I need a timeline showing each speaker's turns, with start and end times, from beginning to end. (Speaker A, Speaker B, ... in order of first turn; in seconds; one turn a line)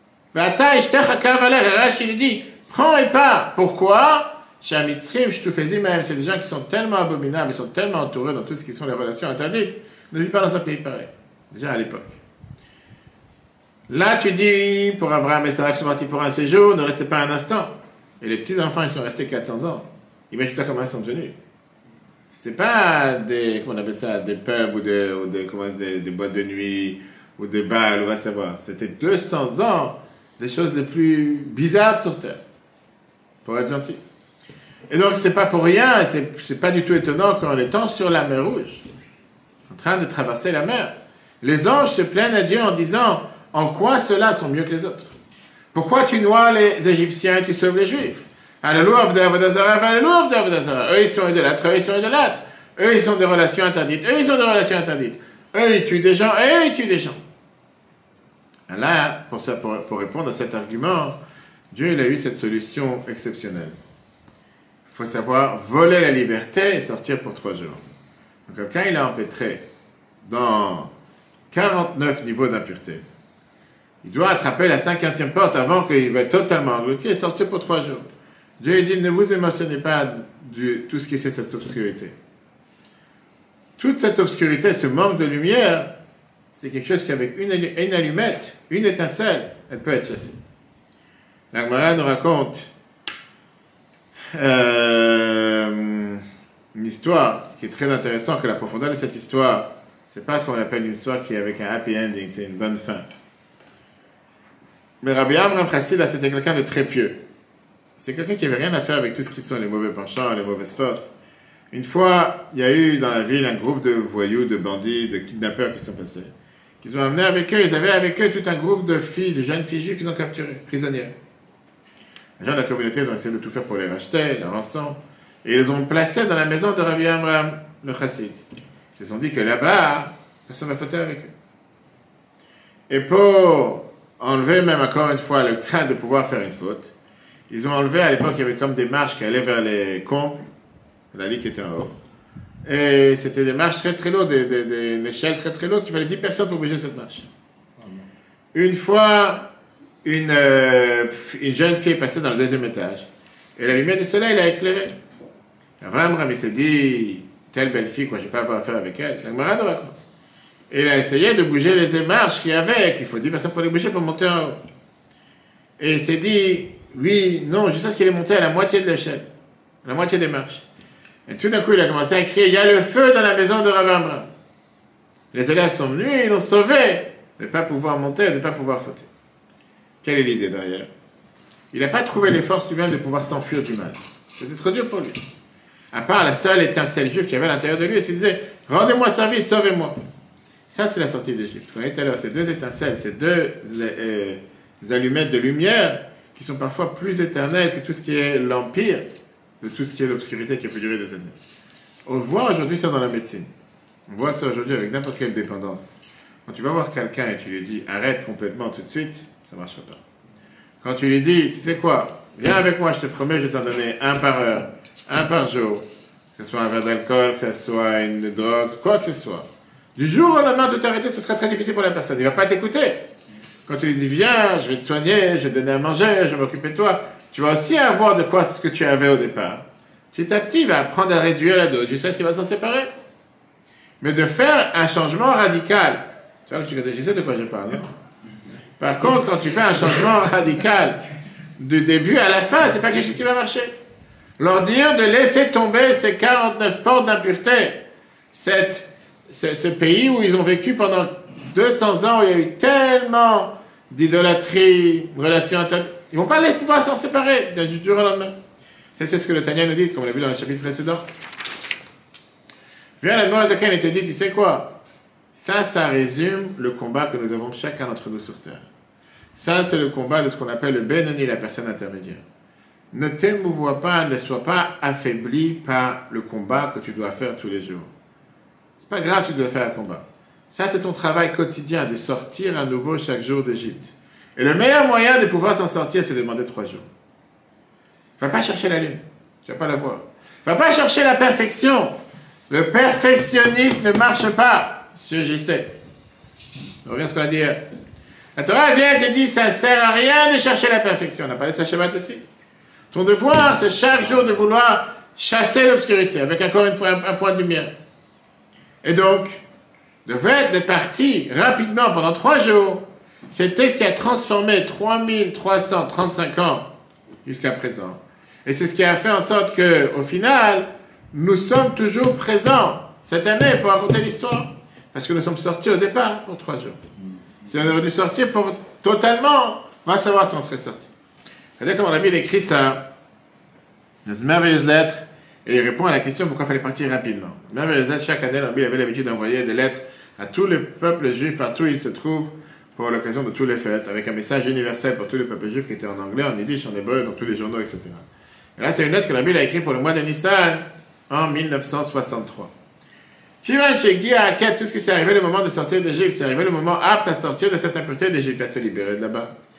Speaker A: 0.3-12.1
Speaker A: 13.9-21.3
Speaker A: 22.3-32.4
Speaker A: 33.4-34.0
Speaker A: 34.9-38.8
Speaker A: 39.7-45.1
Speaker A: 45.7-57.2
Speaker A: 58.7-61.2
Speaker A: 61.7-63.8
Speaker A: 64.9-67.8
Speaker A: 68.5-69.6
Speaker A: 70.2-70.9
Speaker A: 71.5-73.0
Speaker A: 74.0-78.0
Speaker A: 78.6-82.1
Speaker A: 83.8-85.9
Speaker A: 86.5-90.4
Speaker A: 91.5-92.7
Speaker A: 94.3-103.0
Speaker A: 105.0-107.2
Speaker A: 108.0-111.1
Speaker A: 111.7-116.3
Speaker A: 116.8-121.1
Speaker A: 122.4-128.4
Speaker A: 128.9-131.3
Speaker A: 132.9-136.9
Speaker A: 137.5-140.4
Speaker A: 141.1-141.9
Speaker A: 142.6-147.3
Speaker A: 148.5-149.4
Speaker A: 150.0-153.1
Speaker A: 153.6-154.9
Speaker A: 155.8-160.0
Speaker A: 160.7-164.6
Speaker A: 165.8-169.2
Speaker A: 169.8-170.6
Speaker A: 171.3-174.3
Speaker A: 175.3-179.1
Speaker A: 180.0-180.9
Speaker A: 181.7-185.2
Speaker A: 185.9-190.0
Speaker A: 190.7-199.0
Speaker A: 199.6-201.4
Speaker A: 202.1-203.5
Speaker A: 204.1-210.0
Speaker A: 210.8-223.0
Speaker A: 223.7-232.9
Speaker A: 234.0-237.9
Speaker A: 238.8-241.0
Speaker A: 241.6-243.7
Speaker A: 244.4-247.8
Speaker A: 248.3-258.3
Speaker A: 259.0-261.0
Speaker A: 263.0-264.8
Speaker A: 265.3-268.6
Speaker A: 269.3-272.2
Speaker A: 272.9-277.9
Speaker A: 278.8-286.9
Speaker A: 288.2-291.9
Speaker A: 292.5-295.7
Speaker A: 296.8-297.6
Speaker A: 298.4-302.2
Speaker A: 302.9-307.7
Speaker A: 308.8-309.4
Speaker A: 310.1-316.7
Speaker A: 317.2-326.8
Speaker A: 327.4-330.9
Speaker A: 331.6-332.9
Speaker A: 334.0-348.0
Speaker A: 348.6-352.5
Speaker A: 353.4-359.3